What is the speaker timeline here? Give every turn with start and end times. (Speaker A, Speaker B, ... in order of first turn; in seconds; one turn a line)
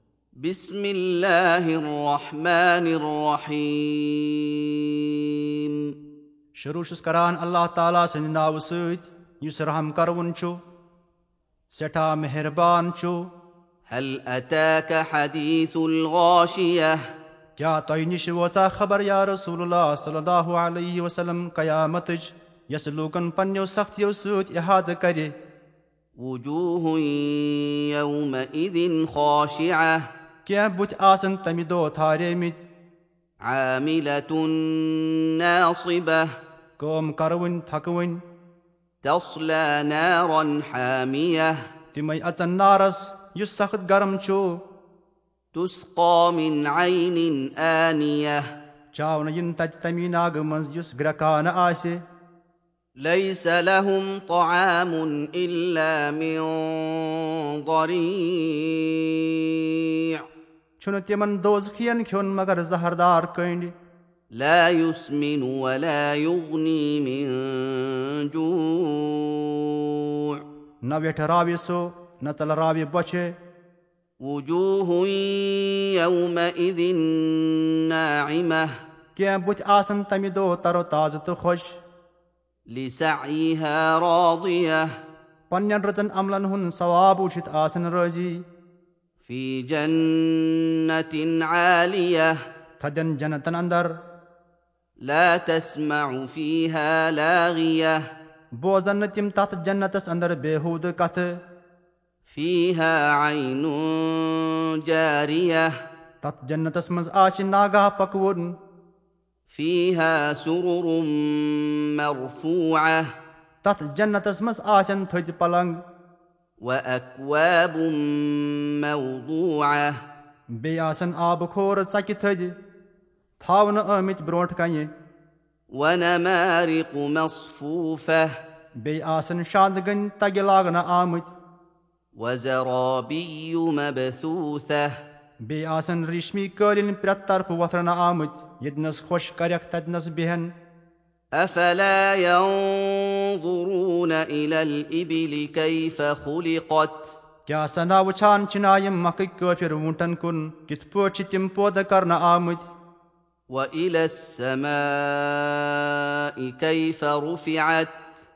Speaker A: 0.4-5.9
Speaker B: 6.6-10.6
Speaker B: 11.7-13.3
Speaker A: 13.9-17.0
Speaker B: 17.6-25.3
Speaker A: 26.2-30.0
Speaker B: 30.4-32.6
Speaker A: 33.4-36.3
Speaker B: 36.8-38.2
Speaker A: 39.0-41.6
Speaker B: 41.9-44.6
Speaker A: 45.5-48.4
Speaker B: 48.9-52.0
Speaker A: 53.0-60.2
Speaker B: 60.8-63.7
Speaker A: 64.3-70.4
Speaker B: 70.8-73.3
Speaker A: 74.2-78.7
Speaker B: 79.2-81.8
Speaker A: 82.7-84.9
Speaker B: 85.5-88.4
Speaker A: 89.3-92.3
Speaker B: 92.8-93.9
Speaker A: 95.0-98.0
Speaker B: 98.6-101.3
Speaker A: 102.3-105.7
Speaker B: 106.2-108.6
Speaker A: 109.5-113.0
Speaker B: 113.6-115.8
Speaker A: 116.6-120.0
Speaker B: 120.6-122.6
Speaker B: 123.4-124.9
Speaker A: 125.7-128.3
Speaker B: 128.8-131.3
Speaker A: 132.2-134.9
Speaker B: 135.5-140.5
Speaker A: 141.4-147.2
Speaker B: 147.5-152.6
Speaker A: 153.5-158.1